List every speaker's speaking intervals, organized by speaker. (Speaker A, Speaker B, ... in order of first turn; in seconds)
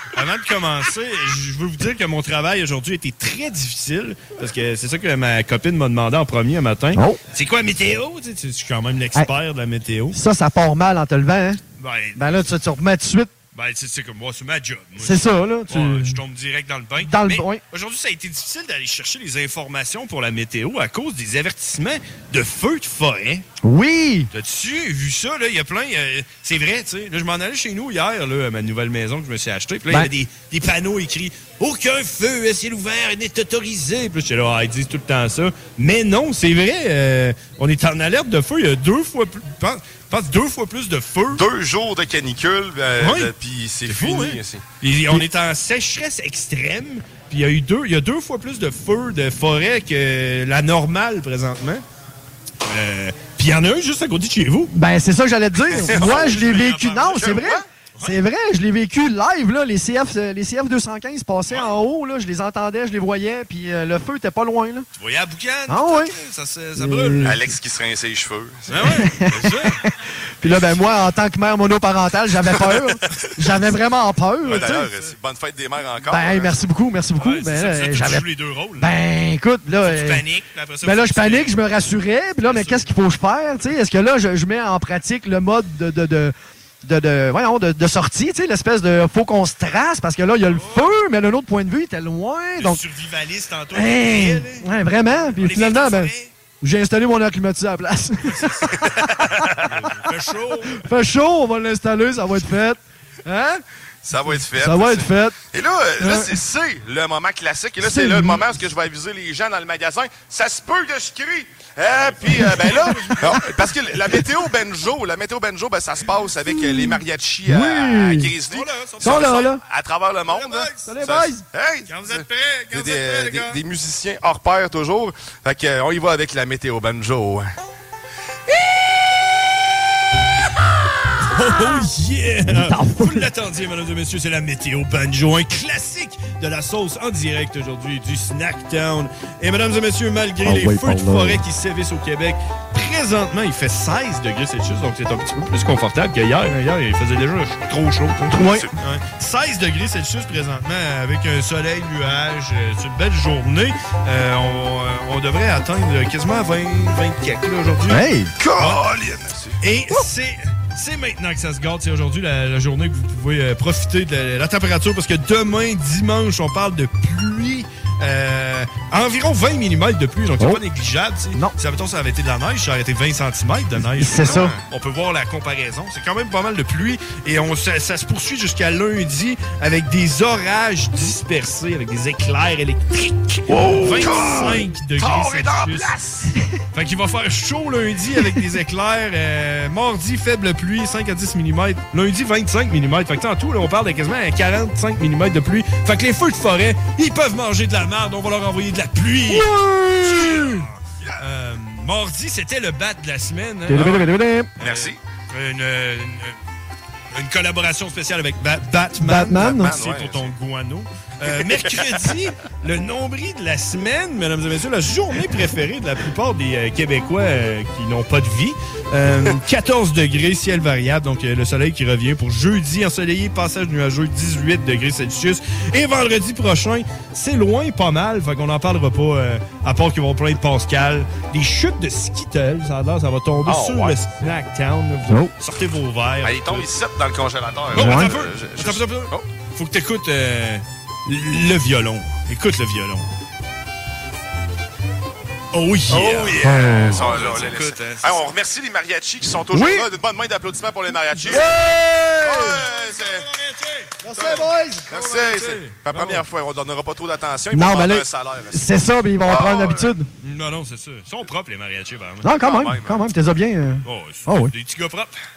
Speaker A: 0.1-10.2, 11.8-12.5, 13.5-23.4, 24.3-41.5, 43.0-43.3, 43.9-51.8, 52.6-54.7, 55.7-58.2, 65.0-67.4, 68.7-69.8, 74.4-75.1, 77.2-78.9, 79.8-81.5, 82.5-82.9, 90.5-90.9, 92.6-96.3, 98.3-100.9, 111.9-113.5, 118.5-119.5, 120.3-120.9, 121.9-123.6, 131.3-158.8, 159.6-185.9, 186.7-206.4, 207.1-236.7, 237.7-243.1, 245.5-248.2, 251.2-251.5, 252.4-256.2, 260.2-262.3, 263.9-265.1
Speaker B: 7.0-7.2, 10.1-11.6, 12.2-13.3, 15.0-16.2, 17.0-17.6, 23.6-24.3, 54.7-64.9, 65.7-66.1, 66.8-67.5, 68.8-74.9, 76.1-78.2, 78.8-80.2, 80.8-92.8, 93.7-98.7, 100.8-103.6, 104.3-105.4, 106.0-106.3, 107.8-108.4, 116.5-118.3, 119.0-119.6, 120.9-121.4, 132.5-133.3, 140.4-141.4, 148.3-148.7, 157.9-158.3, 173.9-174.5, 199.3-200.7, 203.7-204.5, 209.0-209.8, 237.8-238.2, 246.4-247.1, 249.5-249.9, 251.3-252.6, 254.0-254.9, 257.5-260.1, 262.2-264.5
Speaker C: 41.3-44.6, 55.8-56.4, 57.2-57.6, 67.2-68.9, 74.5-76.6, 104.0-127.5, 148.4-148.7, 158.4-159.6, 174.2-174.6, 183.5-186.3, 204.6-205.0, 209.4-210.3, 211.2-212.1, 233.4-234.0, 236.2-239.2, 245.9-251.6, 252.2-253.2, 254.2-258.7, 259.2-259.9, 262.4-263.0